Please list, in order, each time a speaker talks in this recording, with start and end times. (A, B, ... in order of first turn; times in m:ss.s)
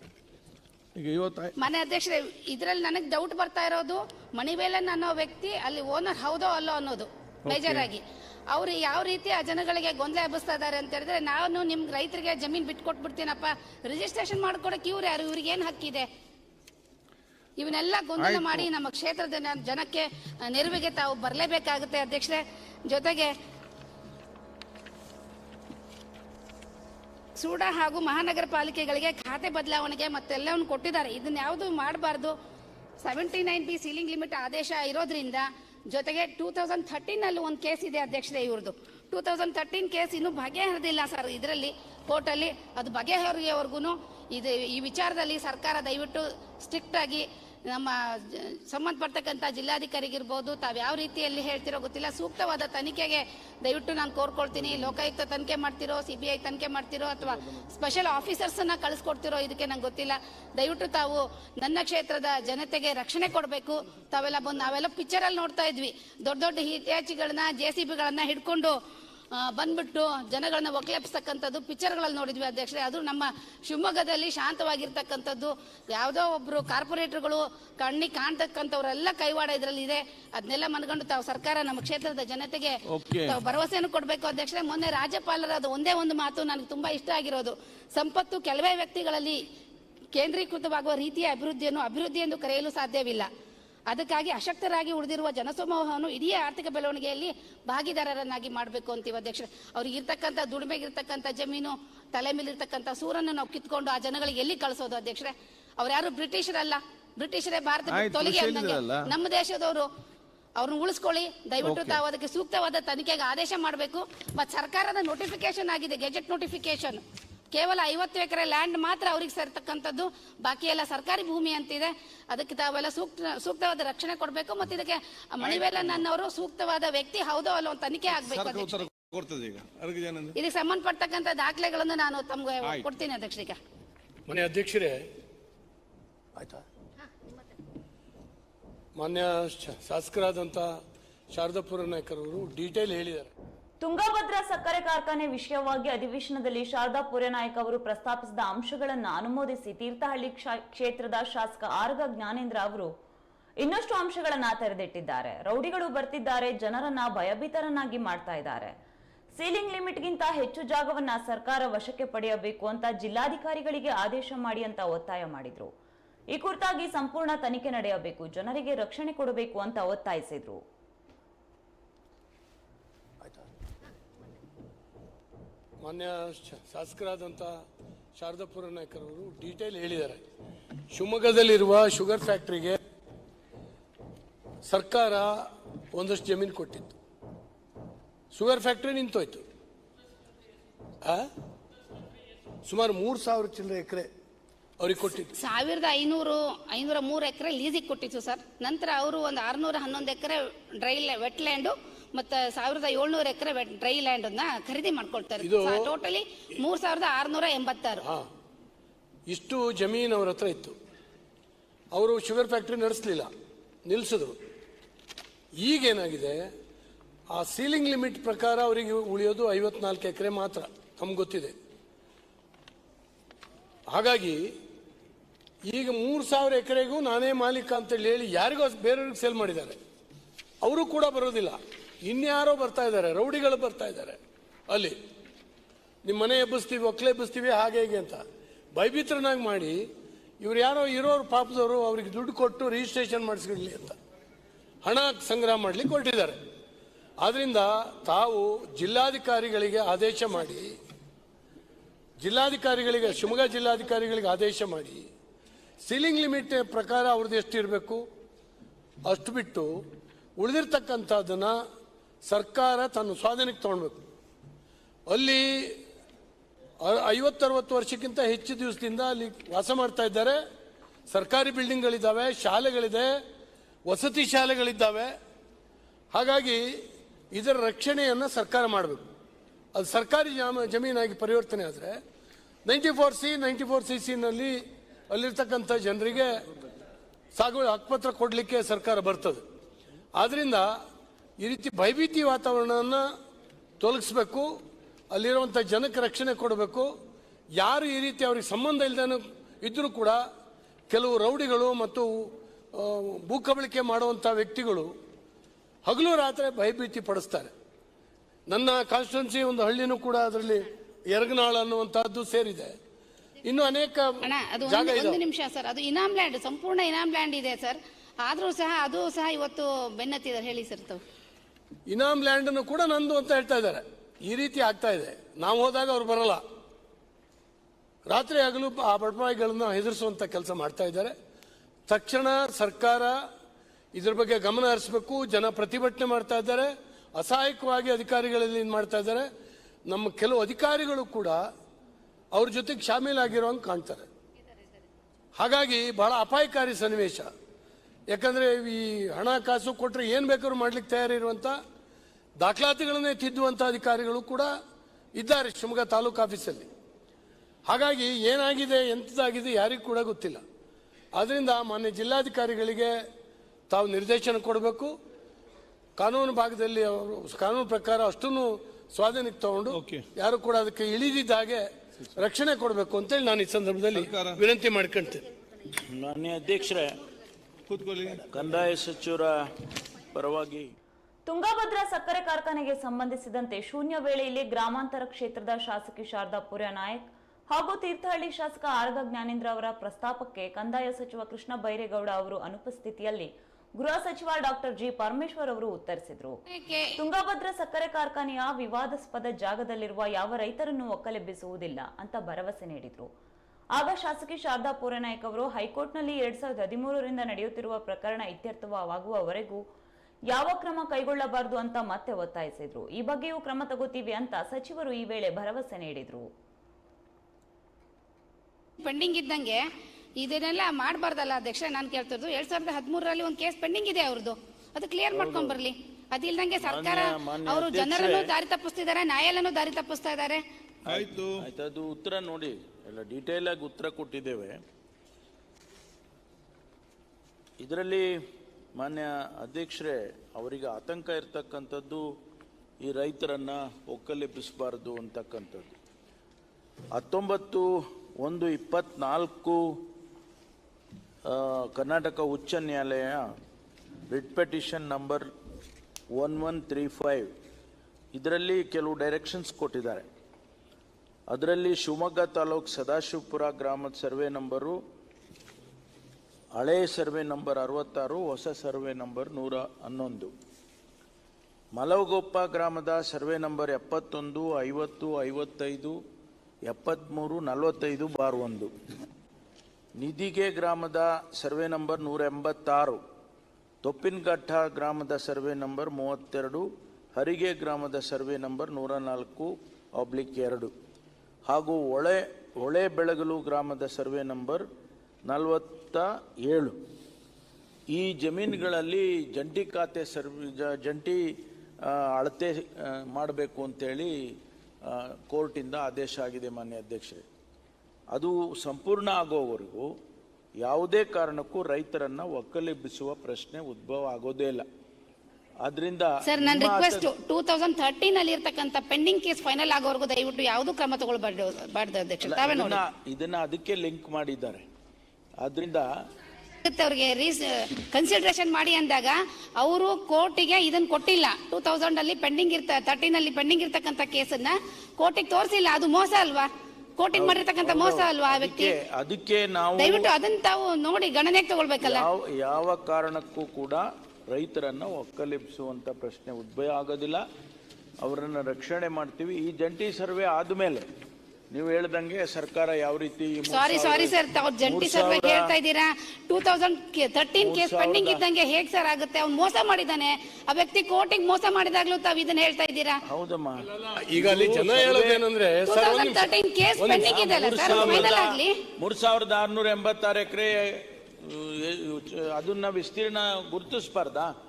0:01.0-0:01.5 A
0:01.6-0:16.1 B
0:07.4-0:07.9 A
0:17.6-0:23.3 B
0:18.2-0:18.7 A
0:27.4-0:32.3 B
0:33.0-1:08.8 B
0:54.6-0:54.9 A
1:09.3-1:29.4 B
1:22.9-1:23.4 A
1:30.1-1:33.3 B
1:33.9-1:49.9 B
1:47.9-1:49.1 A
1:50.6-2:08.8 B
1:51.6-1:52.0 A
2:05.4-2:06.0 A
2:08.2-2:10.3 A
2:10.3-2:13.6 B
2:14.3-2:15.0 C
2:16.4-2:16.6 C
2:19.0-2:20.7 C
2:21.3-2:23.3 C
2:23.8-2:32.9 D
2:33.6-2:38.7 D
2:39.4-2:45.7 D
2:46.3-2:50.6 D
2:55.8-2:57.6 C
2:58.2-3:00.2 C
3:00.9-3:02.8 C
3:04.6-3:05.3 C
3:05.9-3:06.9 C
3:08.3-3:09.4 C
3:12.6-3:14.1 C
3:14.8-3:15.3 C
3:15.3-3:28.0 B
3:25.4-3:25.9 C
3:29.3-3:30.7 C
3:31.9-3:33.3 C
3:33.8-3:34.4 C
3:35.6-3:36.5 C
3:37.3-3:41.5 C
3:43.9-3:44.4 C
3:45.7-3:49.8 C
3:50.6-3:54.9 C
3:56.0-3:58.2 C
3:58.7-3:59.8 C
4:00.4-4:04.0 C
4:04.8-4:06.4 C
4:07.2-4:10.7 C
4:12.2-4:15.1 C
4:15.8-4:18.0 C
4:19.1-4:19.7 C
4:20.4-4:21.6 C
4:22.3-4:24.0 C
4:25.1-4:25.8 C
4:26.8-4:30.4 C
4:31.1-4:33.1 C
4:33.9-4:35.1 C
4:36.1-4:36.6 C
4:37.3-4:39.0 C
4:39.7-4:42.0 C
4:42.6-4:44.6 C
4:45.1-4:46.4 C
4:47.4-4:49.4 C
4:50.2-4:50.7 C
4:51.4-4:53.1 C
4:53.8-4:54.5 C
4:55.1-4:56.9 C
4:57.6-5:00.2 C
5:00.9-5:02.2 C
5:02.7-5:04.9 C
5:05.8-5:07.5 C
5:08.5-5:12.7 C
5:13.4-5:15.2 C
5:14.2-5:21.0 B
5:21.9-5:26.4 C
5:28.1-5:31.1 C
5:31.9-5:33.2 C
5:33.9-5:39.3 C
5:39.9-5:41.4 C
5:42.3-5:44.1 C
5:45.4-5:47.3 C
5:48.1-5:51.6 C
5:52.4-5:54.5 C
5:55.2-5:56.7 C
5:57.7-6:00.4 C
6:01.2-6:03.0 C
6:03.7-6:04.9 C
6:06.0-6:15.2 C
6:09.7-6:10.0 A
6:13.9-6:14.4 A
6:15.9-6:16.9 E
6:17.7-6:18.3 A
6:18.3-6:19.3 E
6:20.1-6:20.7 E
6:21.3-6:36.4 D
6:36.5-6:37.0 B
6:37.0-6:43.1 D
6:43.7-6:49.6 D
6:50.3-6:56.3 D
6:58.8-6:59.6 B
7:00.2-7:10.4 B
7:05.1-7:05.6 E
7:06.6-7:08.3 E
7:10.8-7:14.6 E
7:10.9-7:11.4 A
7:17.6-7:18.1 E
7:18.8-7:22.0 E
7:22.8-7:25.8 E
7:26.9-7:29.8 E
7:31.3-7:33.3 E
7:34.1-7:35.3 E
7:36.1-7:37.3 E
7:38.1-7:40.1 E
7:41.3-7:44.8 E
7:46.6-7:50.3 E
7:51.8-7:56.0 E
7:56.7-7:58.7 E
8:00.0-8:03.0 E
8:03.8-8:10.7 E
8:11.4-8:14.6 E
8:15.3-8:16.8 E
8:17.9-8:21.2 E
8:21.8-8:24.1 E
8:24.9-8:27.2 E
8:28.1-8:29.9 E
8:30.6-8:34.6 E
8:35.6-8:37.1 E
8:36.2-8:42.8 B
8:42.2-8:44.6 E
8:45.4-8:45.9 E
8:46.6-8:58.7 B
8:57.1-9:00.1 E
8:59.8-9:02.0 B
9:01.8-9:07.2 E
9:08.0-9:10.8 E
9:11.5-9:15.5 E
9:13.5-9:23.0 B
9:17.4-9:18.2 E
9:23.0-9:25.2 E
9:23.8-9:28.2 C
9:25.6-9:28.6 B
9:27.0-9:34.3 E